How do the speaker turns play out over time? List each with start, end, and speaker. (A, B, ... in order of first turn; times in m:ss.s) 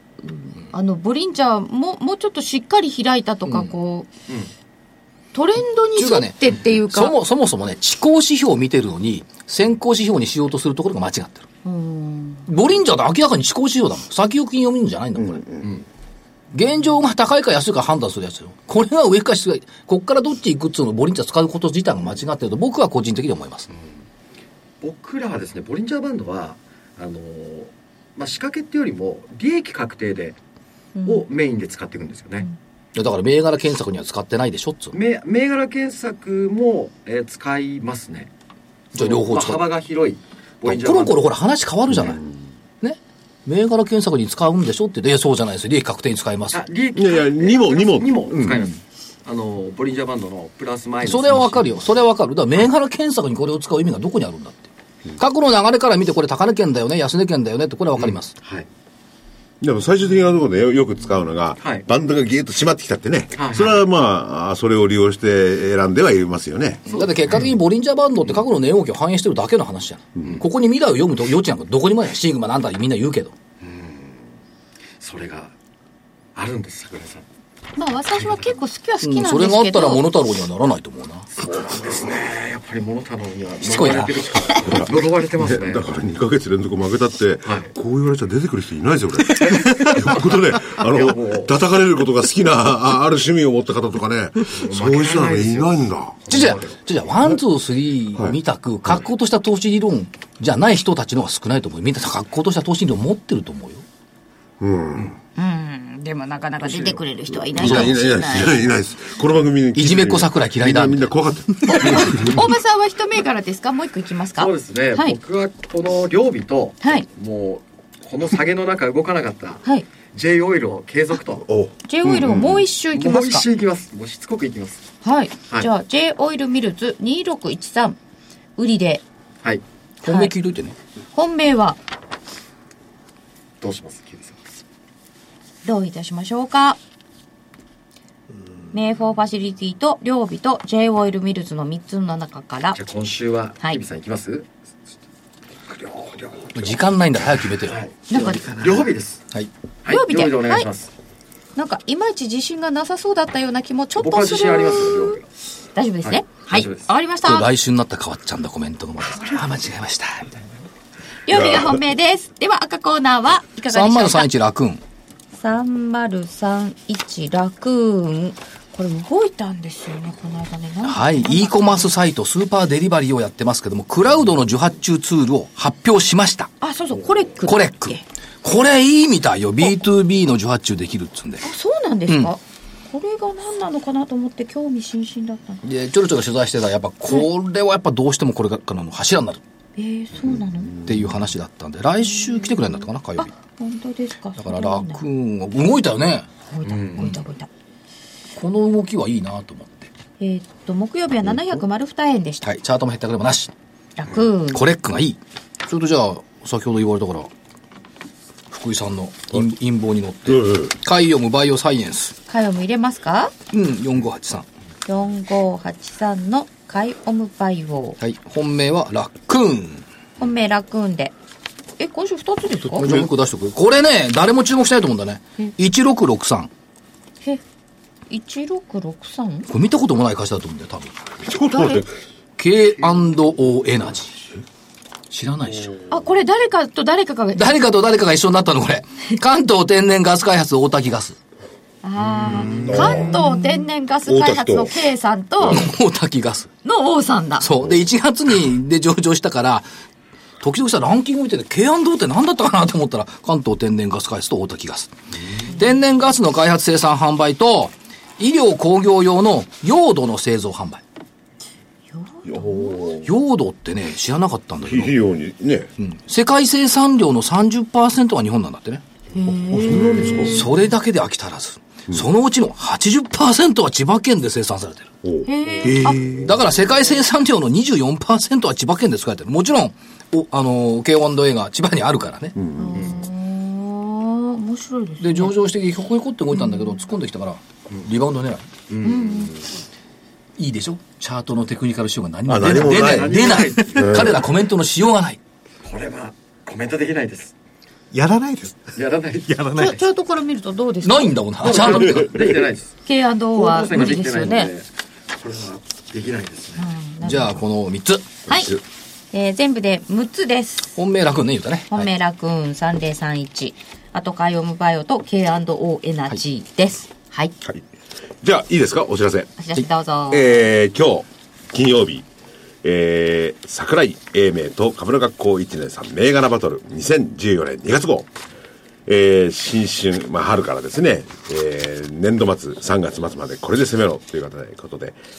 0:00.2-0:04.1 A
0:05.3-0:07.1 A
0:06.0-0:11.4 B
0:11.6-0:12.5 A
0:12.5-0:15.4 B
0:15.2-0:15.7 C
0:16.5-0:23.7 B
0:24.8-0:30.4 D
0:31.0-0:31.2 A
0:31.0-0:32.5 D
0:32.9-0:35.0 B
0:34.9-0:38.3 D
0:38.9-0:39.6 B
0:38.9-0:41.3 D
0:40.6-0:42.2 B
0:41.9-0:42.5 C
0:42.8-0:46.6 B
0:46.5-0:51.7 D
0:46.9-0:48.6 C
0:51.0-0:58.3 B
0:58.0-0:58.7 D
0:59.6-1:06.9 C
1:01.6-1:01.9 D
1:03.3-1:03.8 D
1:06.9-1:07.5 D
1:06.9-1:13.3 B
1:13.6-1:14.2 D
1:15.0-1:15.5 D
1:16.4-1:17.2 D
1:17.8-1:20.1 A
1:18.2-1:18.5 D
1:19.0-1:21.3 B
1:21.3-1:25.9 D
1:23.6-1:24.3 B
1:24.6-1:36.4 C
1:27.4-1:27.7 D
1:30.7-1:31.6 D
1:34.6-1:36.8 D
1:36.3-1:43.8 B
1:44.6-1:45.2 C
1:45.4-1:48.7 A
1:46.6-1:47.0 D
1:47.3-1:52.4 C
1:47.6-1:48.0 B
1:49.7-1:52.2 B
1:51.6-1:55.2 A
1:54.4-1:59.6 D
2:00.1-2:01.4 D
2:01.4-2:02.6 C
2:01.8-2:03.5 A
2:02.9-2:04.9 D
2:05.0-2:08.0 A
2:08.6-2:09.0 A
2:10.0-2:10.3 A
2:10.0-2:10.8 B
2:11.1-2:11.8 A
2:13.6-2:14.6 D
2:15.6-2:16.8 A
2:18.7-2:22.8 A
2:22.7-2:24.5 D
2:25.6-2:26.8 D
2:26.6-2:27.8 B
2:27.6-2:29.2 D
2:28.1-2:28.8 A
2:29.8-2:30.9 D
2:29.9-2:30.7 A
2:31.6-2:35.2 A
2:34.0-2:35.2 D
2:35.7-2:37.5 A
2:36.0-2:36.9 D
2:37.2-2:40.4 B
2:41.3-2:44.3 A
2:41.3-2:41.8 C
2:43.7-2:44.8 B
2:45.4-2:51.9 A
2:50.8-2:56.5 B
2:56.6-2:58.0 A
2:57.4-3:01.4 B
3:01.4-3:05.6 A
3:02.1-3:02.3 B
3:05.6-3:09.4 B
3:09.8-3:11.2 A
3:10.8-3:13.3 B
3:12.0-3:15.0 A
3:14.4-3:16.3 B
3:16.5-3:17.5 A
3:16.6-3:17.0 D
3:18.4-3:19.9 B
3:20.2-3:22.4 A
3:22.4-3:23.5 B
3:24.0-3:24.7 A
3:24.5-3:27.3 B
3:28.5-3:32.1 B
3:30.3-3:30.7 C
3:32.3-3:33.3 A
3:33.5-3:34.4 B
3:34.9-3:38.0 A
3:38.0-3:39.8 B
3:40.2-3:41.1 A
3:41.8-3:43.0 A
3:42.7-3:46.5 B
3:48.1-3:49.5 A
3:49.5-3:51.1 B
3:51.2-3:51.9 C
3:51.4-3:51.8 A
3:52.4-3:54.2 B
3:55.1-3:55.7 B
3:55.9-3:57.6 A
3:57.3-4:01.2 B
4:01.8-4:05.7 A
4:02.1-4:03.2 C
4:02.4-4:03.0 D
4:04.0-4:04.8 C
4:05.4-4:06.5 B
4:06.6-4:07.5 A
4:07.4-4:09.7 B
4:10.4-4:14.9 B
4:15.4-4:20.8 B
4:21.9-4:23.0 A
4:22.2-4:23.1 C
4:23.0-4:25.0 B
4:24.7-4:25.7 C
4:25.8-4:28.8 B
4:29.1-4:30.7 A
4:29.4-4:30.4 C
4:30.2-4:34.9 B
4:35.0-4:35.3 C
4:35.2-4:36.1 A
4:35.6-4:36.3 E
4:36.1-4:42.3 B
4:42.4-4:42.9 C
4:42.6-4:45.4 A
4:42.8-4:43.0 D
4:45.0-4:48.5 B
4:46.3-4:46.8 A
4:48.7-4:49.4 D
4:48.8-4:49.4 A
4:50.4-4:55.2 B
4:52.3-4:54.2 C
4:52.5-4:54.2 D
4:55.6-4:57.3 D
4:57.9-4:58.7 E
4:58.8-4:59.4 D
4:59.3-4:59.8 E
4:59.6-5:01.2 A
5:00.8-5:02.3 B
5:01.4-5:02.7 D
5:02.9-5:04.5 A
5:03.3-5:06.7 D
5:06.6-5:07.4 A
5:07.0-5:08.1 B
5:08.3-5:08.5 A
5:08.3-5:08.6 C
5:09.1-5:10.8 A
5:10.8-5:11.9 B
5:11.7-5:17.3 A
5:18.2-5:19.3 C
5:19.4-5:20.4 A
5:20.1-5:22.0 C
5:22.6-5:28.1 C
5:28.9-5:35.0 C